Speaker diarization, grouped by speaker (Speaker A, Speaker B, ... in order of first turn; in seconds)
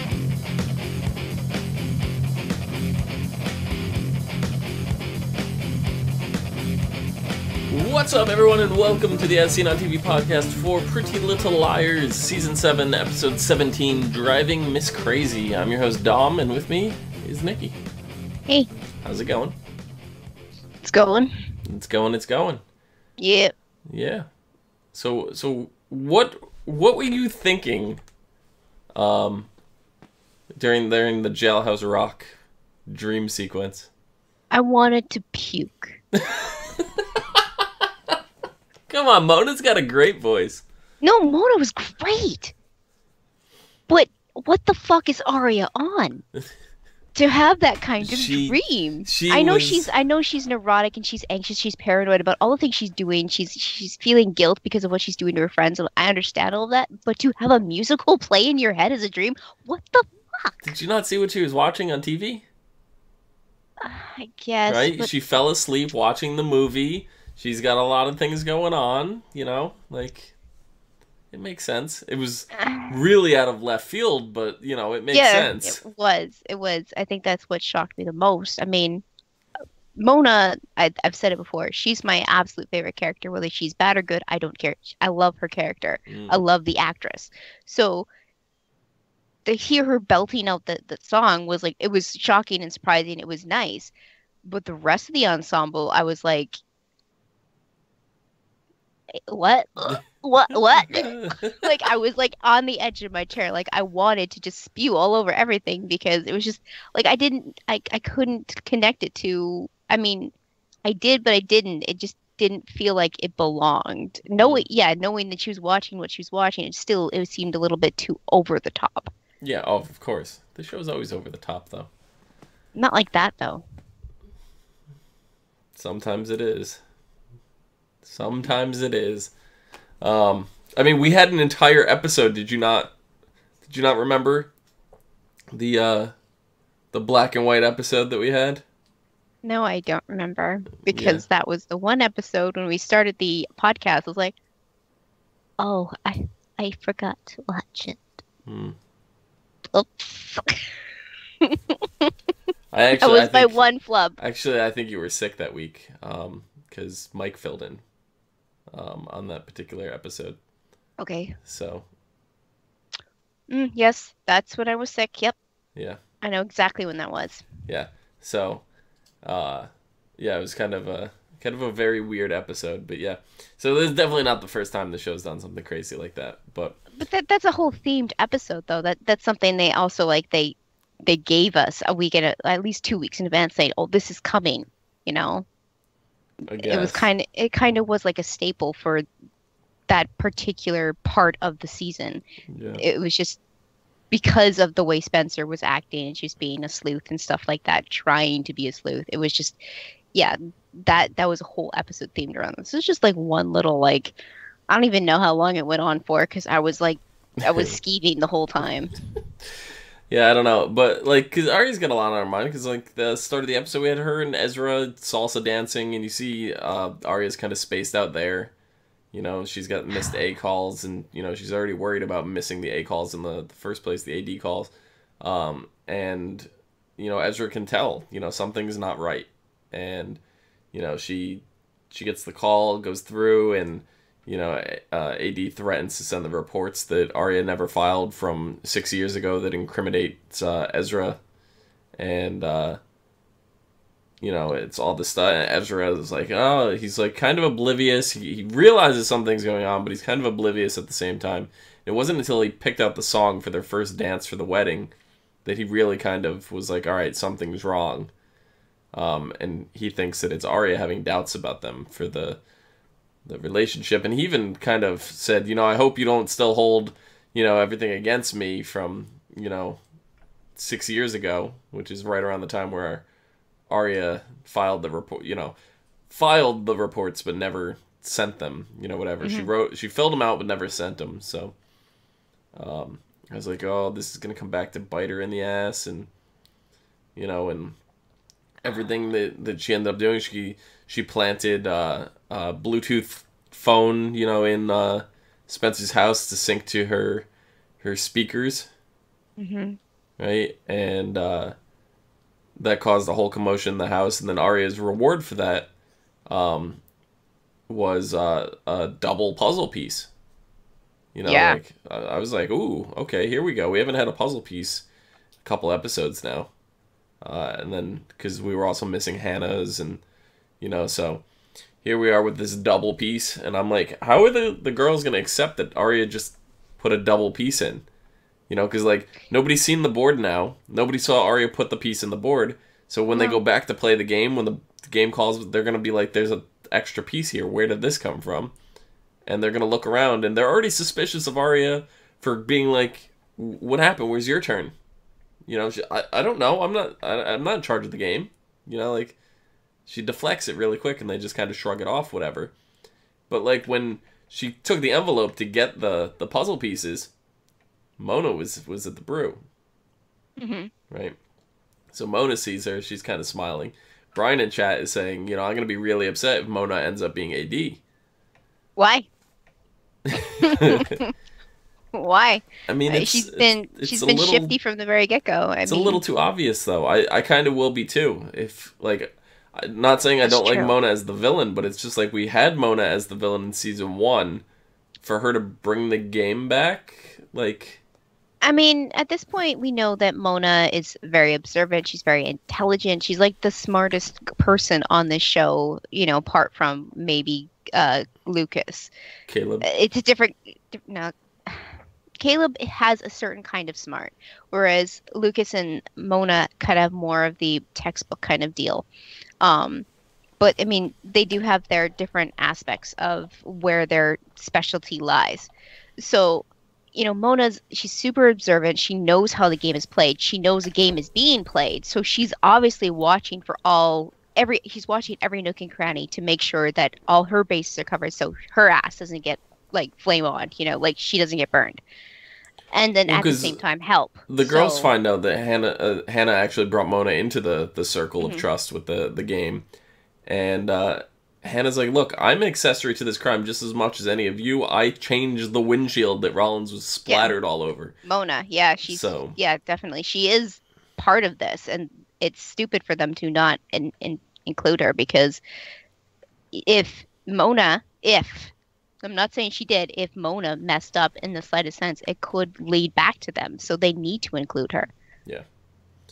Speaker A: 7.7-17.8, 19.0-19.6, 21.6-22.6, 23.9-24.3, 24.9-28.0, 28.9-29.5, 30.5-32.3, 32.9-33.9, 36.1-38.1, 38.9-40.6, 48.0-49.9, 60.6-62.4, 64.7-70.3, 71.3-75.8, 86.1-86.4, 99.8-101.7, 114.4-114.6, 119.4-121.9, 125.7-126.8, 128.0-129.3, 130.0-132.9, 133.6-134.5, 135.5-136.1, 136.9-138.6, 140.9-141.2, 148.4-148.8, 152.7-157.8, 158.7-160.4, 161.4-161.9, 167.7-168.6, 169.2-176.8, 186.5-187.1, 192.5-192.8, 207.4-207.7, 210.1-218.5, 219.1-230.2, 230.7-241.2, 242.0-242.8, 244.2-254.9, 255.4-258.1, 258.9-262.4, 263.2-269.8, 270.6-273.1, 273.7-275.6, 276.1-281.5, 282.5-286.1, 287.1-287.8, 288.6-297.3, 297.8-298.7, 300.2-301.5, 302.6-305.7, 306.3-306.8, 307.7-310.1, 311.1-314.9, 315.4-316.5, 317.2-320.0, 320.6-321.2, 321.8-327.8, 328.5-338.5, 339.2-344.7, 345.4-349.2, 349.9-352.5, 353.3-357.1, 358.0-359.4, 360.9-361.2, 361.9-367.8, 370.0-371.0, 372.7-374.5, 375.7-384.4, 385.0-387.8, 399.3-399.7, 433.1-433.6, 434.3-439.6, 440.2-447.9, 448.8-449.4
Speaker B: 20.8-21.3, 23.2-23.5, 34.5-36.0, 41.0-42.5, 43.9-46.2, 47.1-60.7, 63.8-65.1, 72.5-72.9, 75.1-79.0, 80.0-88.1, 89.4-93.9, 94.4-96.6, 99.3-110.3, 110.8-119.1, 122.7-123.6, 139.4-144.3, 145.6-148.1, 149.7-150.7, 151.4-152.1, 152.9-154.2, 161.0-161.3, 163.5-165.3, 166.2-167.4, 176.9-185.4, 186.5-189.0, 189.9-192.2, 192.8-193.4, 194.1-199.6, 200.1-204.2, 204.7-208.9, 279.2-279.5, 299.4-299.8, 311.2-311.6, 333.1-333.4, 360.4-360.7, 368.8-369.1, 370.4-371.1, 371.9-376.0, 380.2-380.7, 388.4-398.9, 399.6-408.9, 409.4-409.9, 410.4-431.8, 432.7-434.9, 438.2-438.4, 447.1-447.3, 448.0-455.4, 456.5-464.9